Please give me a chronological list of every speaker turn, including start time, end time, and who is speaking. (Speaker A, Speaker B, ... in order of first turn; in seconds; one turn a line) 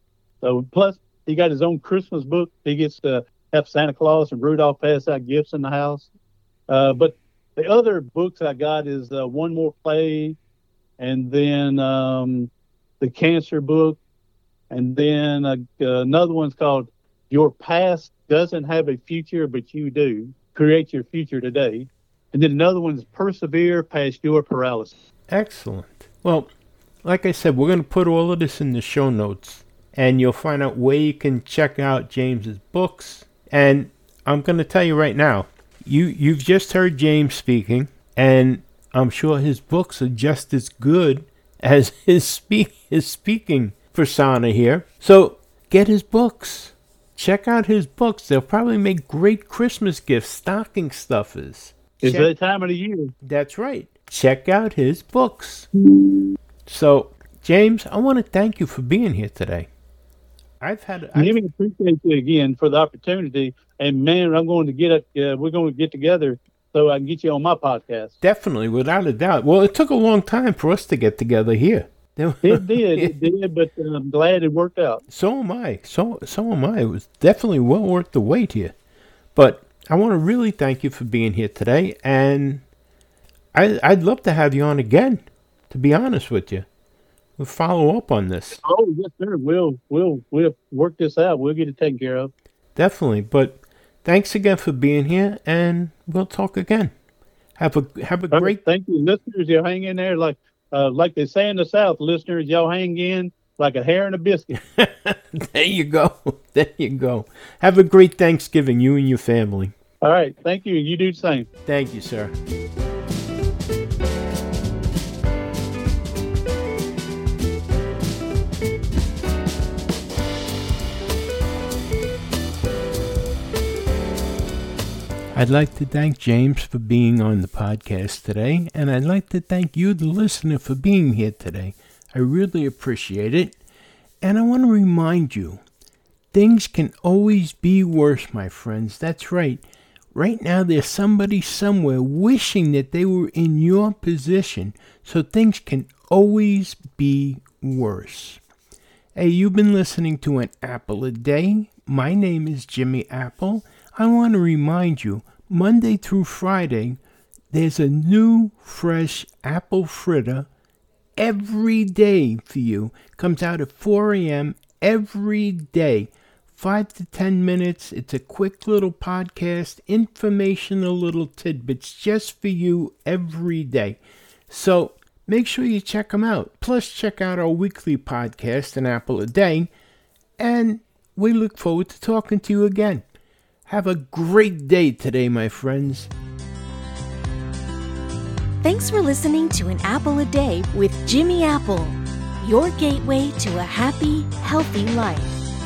Speaker A: 0.4-6.1
Speaker A: 6.7-10.4
Speaker A: 11.0-14.0
Speaker A: 14.7-25.0
Speaker B: 25.3-26.5
Speaker B: 27.0-52.3
Speaker A: 52.0-53.1
Speaker B: 53.2-55.7
Speaker A: 55.8-56.3
Speaker B: 56.7-59.7
Speaker B: 60.6-61.4
Speaker A: 61.1-68.2
Speaker B: 68.2-73.2
Speaker A: 72.4-75.0
Speaker B: 75.1-78.8
Speaker B: 79.3-82.6
Speaker B: 83.5-86.7
Speaker B: 87.4-88.6
Speaker A: 88.6-92.3
Speaker B: 92.8-96.9
Speaker B: 97.6-98.6
Speaker A: 98.3-104.5
Speaker B: 104.5-109.7
Speaker A: 110.0-111.5
Speaker B: 111.7-112.3
Speaker B: 125.3-133.6
Speaker B: 134.2-135.6
Speaker B: 136.3-139.6
Speaker B: 140.1-148.4
Speaker B: 149.2-157.0
Speaker B: 157.5-160.5
Speaker B: 161.2-179.7
Speaker B: 180.4-183.1
Speaker B: 183.7-186.1
Speaker C: 188.6-195.4